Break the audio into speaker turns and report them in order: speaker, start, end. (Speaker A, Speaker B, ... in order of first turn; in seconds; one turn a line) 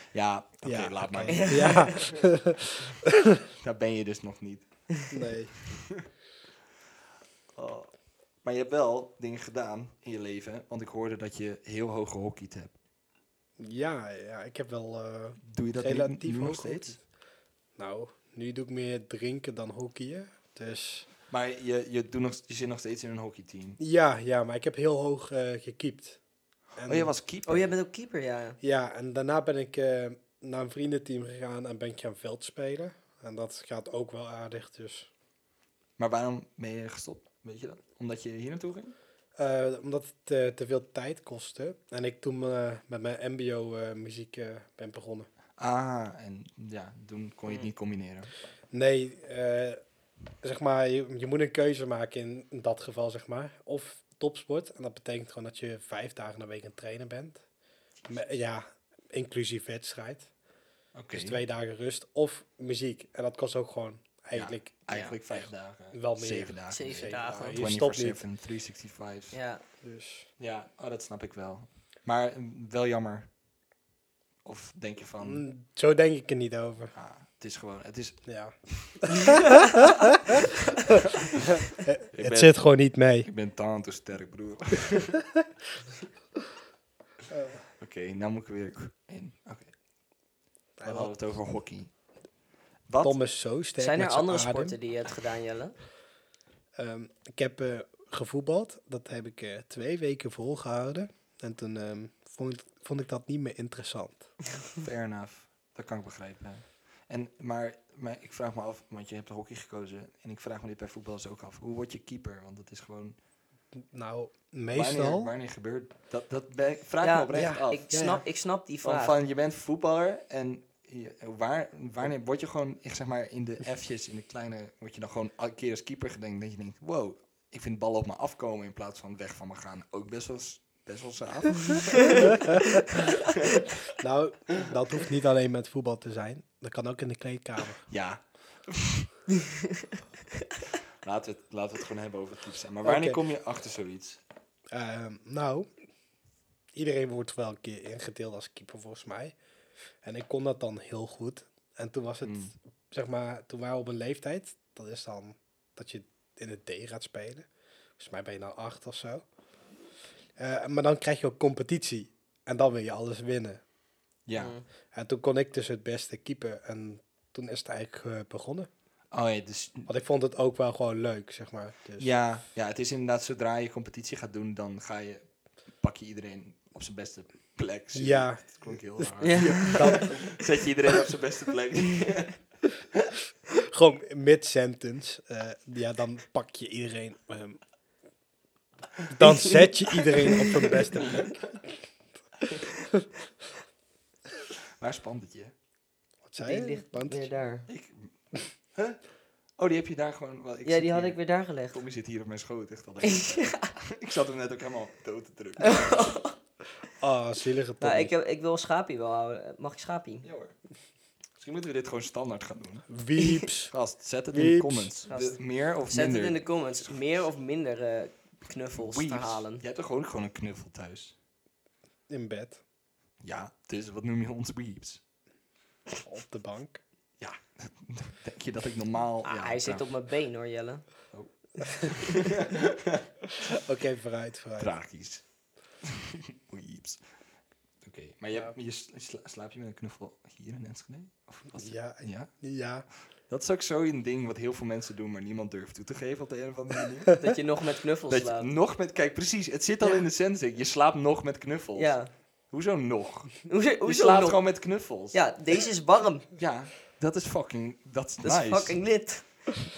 Speaker A: 0.1-1.9
Speaker B: 0.6-3.4
Speaker C: 1.3-2.1
Speaker A: 3.6-4.7
Speaker B: 5.1-5.5
Speaker A: 5.7-6.0
Speaker A: 7.5-7.9
Speaker A: 8.4-12.7
Speaker B: 13.6-17.0
Speaker A: 15.4-17.0
Speaker B: 17.8-21.1
Speaker A: 21.3-23.8
Speaker B: 23.8-26.2
Speaker B: 26.8-27.1
Speaker A: 26.8-27.7
Speaker C: 27.5-28.6
Speaker B: 28.6-35.1
Speaker A: 36.0-38.9
Speaker B: 39.4-45.3
Speaker A: 45.6-48.3
Speaker B: 48.7-49.8
Speaker B: 50.4-57.4
Speaker B: 58.1-60.3
Speaker A: 60.9-61.4
Speaker B: 61.1-68.2
Speaker A: 64.3-69.4
Speaker C: 66.7-67.6
Speaker C: 69.3-69.6
Speaker B: 69.8-70.3
Speaker A: 70.4-73.3
Speaker A: 74.4-75.4
Speaker B: 75.2-76.9
Speaker A: 76.9-78.2
Speaker B: 78.2-83.3
Speaker A: 78.8-79.9
Speaker A: 81.1-81.4
Speaker A: 82.1-82.6
Speaker A: 83.2-85.2
Speaker B: 87.3-87.6
Speaker A: 87.8-89.7
Speaker B: 90.8-91.1
Speaker A: 90.8-91.9
Speaker A: 92.9-93.2
Speaker B: 93.0-94.8
Speaker C: 93.8-95.7
Speaker B: 96.8-104.3
Speaker A: 104.8-113.2
Speaker B: 113.8-115.3
Speaker A: 114.7-117.9
Speaker C: 117.0-119.2
Speaker B: 117.3-118.2
Speaker A: 118.8-133.6
Speaker B: 133.8-137.8
Speaker A: 137.9-139.1
Speaker A: 141.0-144.2
Speaker B: 142.8-143.2
Speaker B: 144.7-145.7
Speaker B: 146.7-149.3
Speaker B: 150.0-159.2
Speaker A: 152.2-152.5
Speaker B: 160.4-163.6
Speaker A: 164.3-164.6
Speaker C: 164.4-164.6
Speaker B: 164.9-168.7
Speaker A: 169.1-169.9
Speaker B: 169.9-172.1
Speaker A: 172.0-175.2
Speaker A: 175.8-182.4
Speaker B: 177.9-180.3
Speaker C: 179.2-180.1
Speaker B: 183.5-187.6
Speaker B: 189.1-191.5
Speaker C: 189.2-189.5
Speaker A: 194.8-195.5
Speaker B: 196.3-197.3
Speaker C: 196.4-197.7
Speaker A: 197.7-198.1
Speaker A: 199.6-201.2
Speaker C: 200.6-201.8
Speaker A: 201.7-206.1
Speaker C: 203.0-203.7
Speaker C: 205.6-206.3
Speaker B: 207.0-208.1
Speaker C: 207.8-210.2
Speaker A: 210.2-210.5
Speaker A: 211.4-212.8
Speaker B: 212.9-213.7
Speaker C: 213.2-213.4
Speaker A: 213.7-217.0
Speaker B: 214.3-214.9
Speaker C: 215.1-219.6
Speaker A: 218.7-221.2
Speaker B: 222.1-222.6
Speaker A: 223.2-225.0
Speaker B: 226.0-226.8
Speaker A: 227.2-229.9
Speaker C: 229.2-230.9
Speaker A: 231.1-233.0
Speaker B: 233.5-234.7
Speaker A: 234.6-235.2
Speaker A: 235.8-237.0
Speaker A: 237.8-242.3
Speaker B: 241.6-242.8
Speaker A: 243.3-247.1
Speaker C: 247.2-248.5
Speaker A: 248.1-251.9
Speaker C: 251.8-252.1
Speaker A: 252.5-255.2
Speaker C: 253.5-254.4
Speaker C: 255.1-256.3
Speaker A: 256.4-258.8
Speaker C: 258.2-259.5